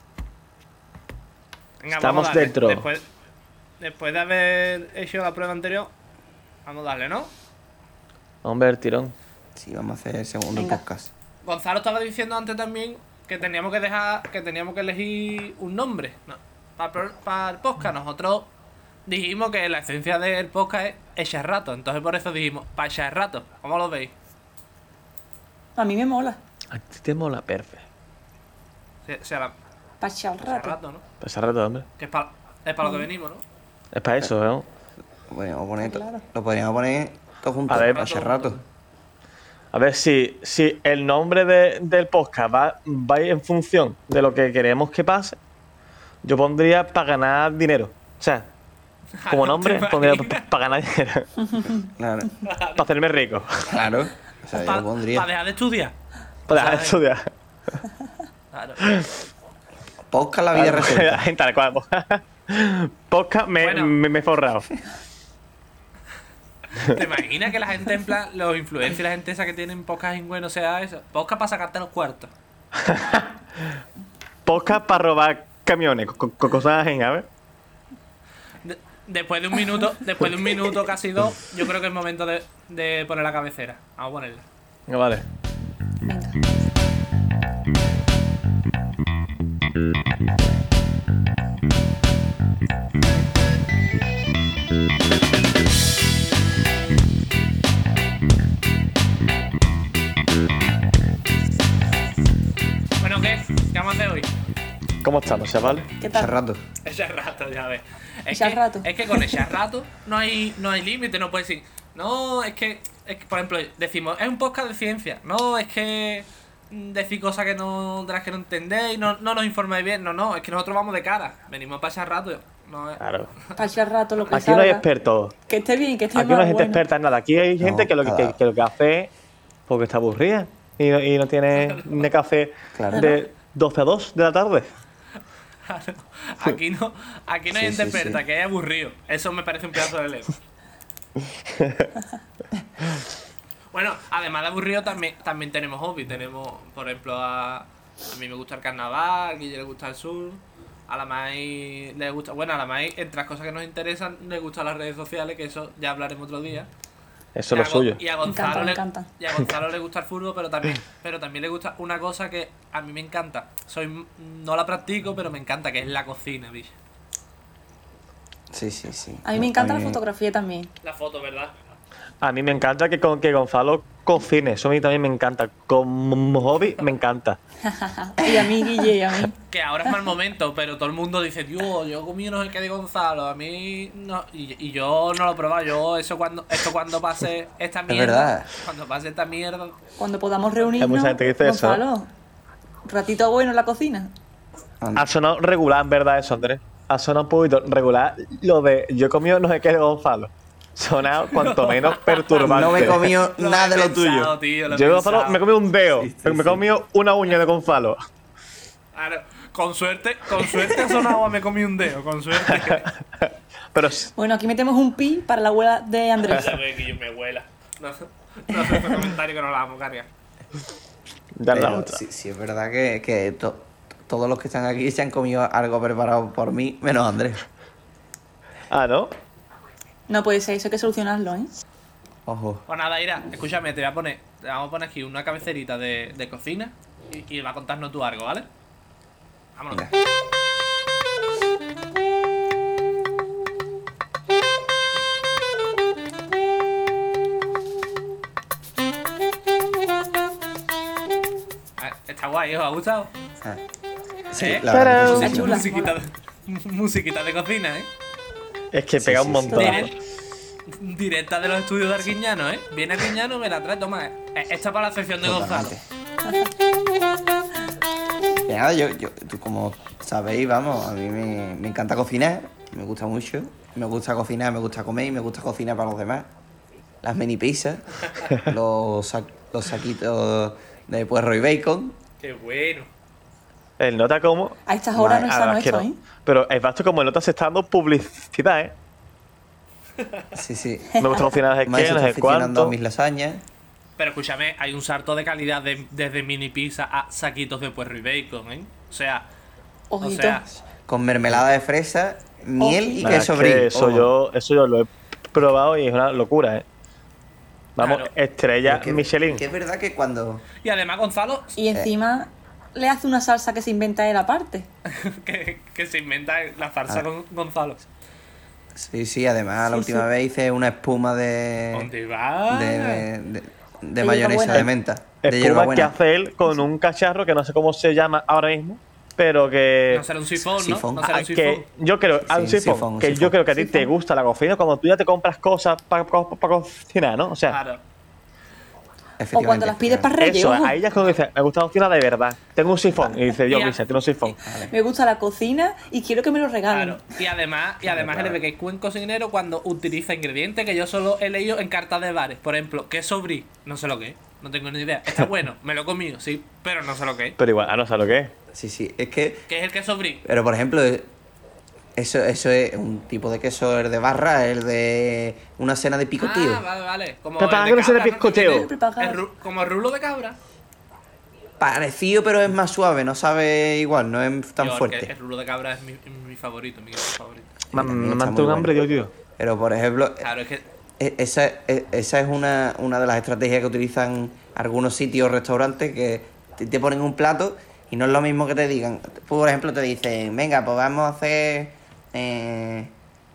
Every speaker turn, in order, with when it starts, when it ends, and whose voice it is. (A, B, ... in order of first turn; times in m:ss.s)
0:01.8-0:03.0 A
0:01.9-0:02.9 B
0:03.8-0:05.9 A
0:06.6-0:07.3 A
0:08.4-0:09.1 B
0:09.6-0:11.1 C
0:10.5-0:10.8 D
0:11.4-0:18.5 A
0:19.1-0:24.1 A
0:25.8-0:26.4 D
0:26.7-0:27.8 B
0:29.0-0:29.5 A
0:30.0-0:30.8 D
0:30.4-0:31.0 A
0:31.2-0:31.8 B
0:32.0-0:33.4 A
0:33.9-0:34.6 B
0:35.3-0:38.6 C
0:35.8-0:36.2 D
0:37.7-0:38.0 B
0:37.8-0:38.6 A
0:39.7-0:45.4 B
0:46.2-0:48.5 B
0:49.2-0:50.4 A
0:49.3-0:51.3 B
0:51.7-0:52.4 C
0:52.4-0:52.8 A
0:52.8-0:53.9 B
0:53.7-0:55.2 C
0:54.5-0:55.9 A
0:56.5-0:57.8 B
0:56.5-0:57.0 A
0:58.5-0:58.9 A
0:58.8-0:59.1 B
1:00.1-1:01.2 C
1:00.5-1:04.7 B
1:03.6-1:03.9 A
1:06.7-1:12.3 A
1:12.7-1:13.8 B
1:14.4-1:17.3 B
1:18.6-1:24.4 A
1:24.9-1:25.2 B
1:26.0-1:26.4 D
1:43.0-1:44.3 A
1:45.0-1:45.9 B
1:46.0-1:46.3 D
1:46.1-1:46.6 C
1:46.8-2:03.5 A
1:48.3-1:49.4 D
2:03.0-2:03.3 B
2:03.6-2:04.8 D
2:04.3-2:05.3 B
2:05.5-2:06.8 D
2:06.1-2:09.1 B
2:07.6-2:08.3 C
2:09.7-2:14.7 B
2:11.5-2:12.1 A
2:12.7-2:13.2 C
2:12.9-2:13.2 D
2:15.6-2:20.4 A
2:17.5-2:18.2 C
2:21.5-2:21.9 B
2:23.7-2:36.7 A
2:37.3-2:38.0 B
2:37.5-2:46.7 A
2:38.2-2:39.1 D
2:48.5-2:50.0 C
2:49.2-2:50.7 D
2:50.8-2:51.5 A
2:52.2-2:57.4 B
2:57.7-2:59.4 D
2:58.2-2:58.8 C
2:59.5-3:09.8 A
3:07.9-3:08.5 C
3:10.0-3:12.1 D
3:10.8-3:11.8 B
3:12.8-3:14.1 D
3:14.8-3:15.1 C
3:15.0-3:23.1 B
3:21.3-3:25.4 A
3:22.4-3:24.3 C
3:24.7-3:28.0 B
3:25.9-3:26.6 C
3:28.9-3:32.9 A
3:32.5-3:34.1 B
3:34.2-3:36.6 D
3:36.2-3:40.1 A
3:41.4-3:42.0 B
3:41.5-3:47.4 C
3:48.7-3:49.1 B
3:50.1-3:51.5 D
3:52.3-3:52.6 C
3:52.7-3:58.5 A
3:59.6-3:59.8 A
4:11.8-4:13.1 A
4:14.3-4:15.7 C
4:14.3-4:17.9 A
4:14.6-4:15.4 B
4:15.1-4:15.9 D
4:18.7-4:19.9 B
4:19.0-4:19.9 C
4:19.5-4:19.9 A
4:20.7-4:25.7 A
4:25.2-4:25.8 C
4:28.4-4:36.3 C
4:37.0-4:42.0 C
4:42.2-4:42.9 A
4:43.8-4:48.7 B
4:44.6-4:46.0 D
4:45.0-4:45.2 C
4:50.0-4:50.2 A
4:50.3-4:53.4 C
4:51.0-4:52.8 B
4:54.0-4:59.2 A
4:59.9-5:00.4 D
5:00.0-5:00.5 A
5:00.6-5:04.1 C
5:02.6-5:03.2 D
5:03.0-5:06.6 B
5:07.8-5:09.4 B
5:07.8-5:08.1 A
5:08.6-5:10.4 C
5:10.6-5:11.6 A
5:11.6-5:14.7 D
5:14.9-5:17.9 A
5:18.8-5:21.9 C
5:19.6-5:20.1 D
5:21.7-5:23.1 A
5:22.5-5:25.9 C
5:24.0-5:24.7 D
5:25.2-5:30.1 B
5:29.9-5:31.6 A
5:30.5-5:31.0 C
5:31.0-5:37.6 B
5:32.2-5:33.4 C
5:33.5-5:33.9 D
5:37.5-5:37.8 A
5:39.2-5:40.1 C
5:39.3-5:40.8 D
5:40.2-5:44.4 B
5:43.4-5:43.8 A
5:44.4-5:44.7 C
5:44.7-5:47.0 D
5:46.7-5:57.4 A
5:47.9-5:48.4 C
5:57.4-5:58.3 B
5:58.5-5:59.4 C
5:59.5-6:00.2 A
6:00.2-6:01.1 C
6:02.0-6:06.6 C
6:06.2-6:10.4 A
6:07.4-6:08.7 B
6:08.3-6:09.2 D
6:11.6-6:15.1 C
6:14.6-6:17.6 A
6:17.7-6:18.7 C
6:17.7-6:19.1 B
6:19.4-6:20.2 C
6:20.2-6:20.6 A
6:21.0-6:32.9 C